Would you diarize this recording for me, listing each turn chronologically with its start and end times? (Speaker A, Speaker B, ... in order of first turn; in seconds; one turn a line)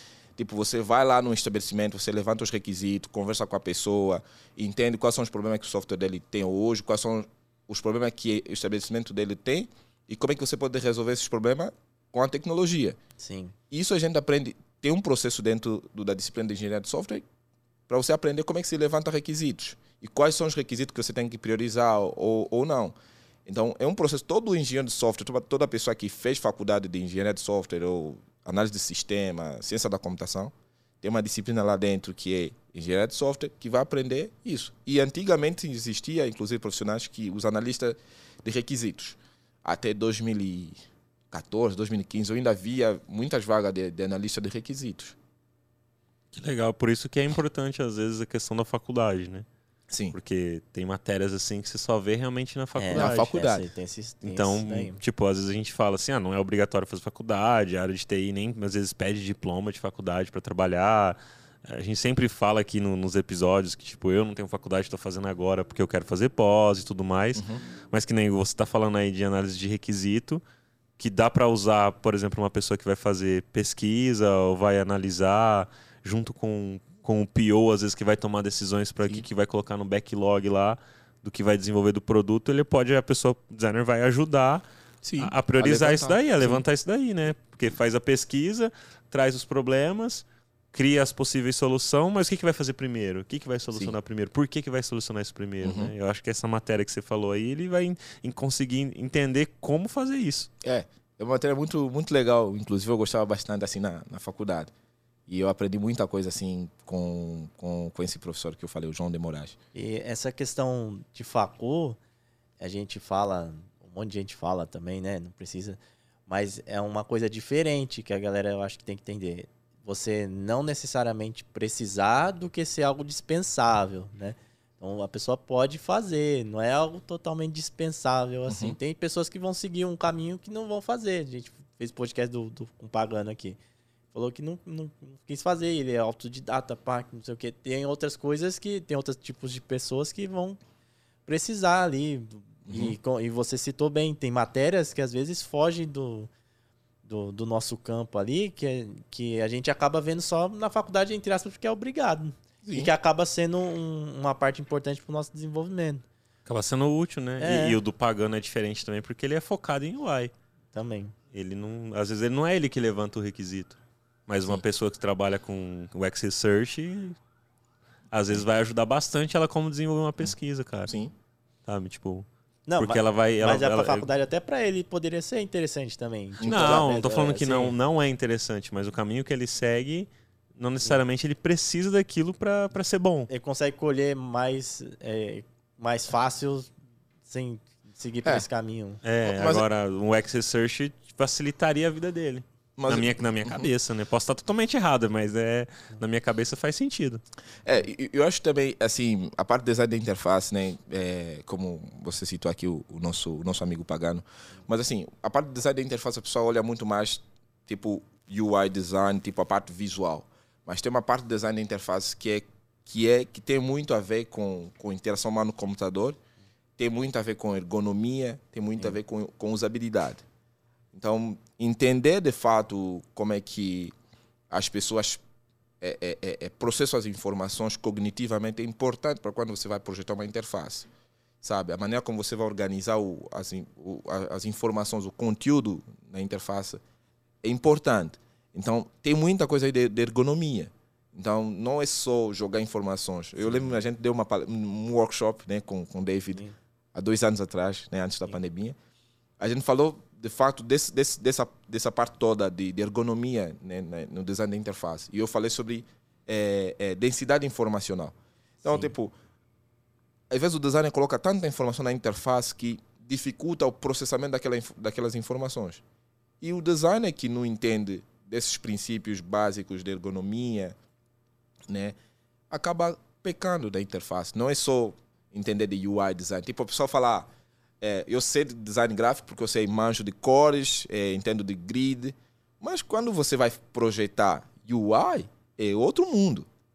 Speaker A: 0.4-13.0
Speaker B: 13.2-13.6
Speaker A: 13.7-17.2
Speaker A: 17.9-22.9
Speaker A: 23.5-40.8
Speaker A: 41.3-45.2
Speaker C: 46.3-49.5
Speaker A: 49.9-50.2
Speaker C: 50.1-53.3
Speaker B: 52.8-55.0
Speaker A: 52.9-53.6
Speaker C: 54.2-70.4
Speaker A: 67.4-67.6
Speaker C: 71.0-84.6
Speaker A: 85.0-86.6
Speaker C: 85.2-100.5
Speaker A: 95.6-95.9
Speaker A: 100.6-104.7
Speaker A: 105.3-109.6
Speaker B: 109.7-112.0
Speaker B: 112.6-133.6
Speaker A: 128.5-128.8
Speaker B: 134.1-140.6
Speaker B: 141.3-146.3
Speaker A: 142.7-143.0
Speaker B: 147.1-156.0
Speaker A: 152.6-152.9
Speaker C: 156.5-160.3
Speaker B: 157.4-157.8
Speaker B: 160.7-161.1
Speaker C: 161.3-167.2
Speaker C: 168.1-170.9
Speaker A: 170.9-171.1
Speaker C: 171.7-172.3
Speaker B: 172.7-177.8
Speaker C: 172.8-174.1
Speaker A: 176.4-176.9
Speaker C: 176.4-183.3
Speaker B: 183.3-186.7
Speaker B: 187.3-189.0
Speaker C: 189.0-197.2
Speaker A: 189.3-189.7
Speaker A: 192.8-193.7
Speaker A: 197.7-216.2
Speaker A: 216.8-220.2
Speaker A: 220.9-223.9
Speaker A: 224.5-225.2
Speaker A: 225.8-230.9
Speaker A: 231.4-236.8
Speaker A: 237.4-248.8
Speaker A: 249.4-259.1
Speaker B: 258.6-258.9
Speaker A: 260.3-265.8
Speaker A: 266.4-270.8
Speaker A: 271.7-272.0
Speaker A: 272.5-277.3
Speaker A: 277.8-286.5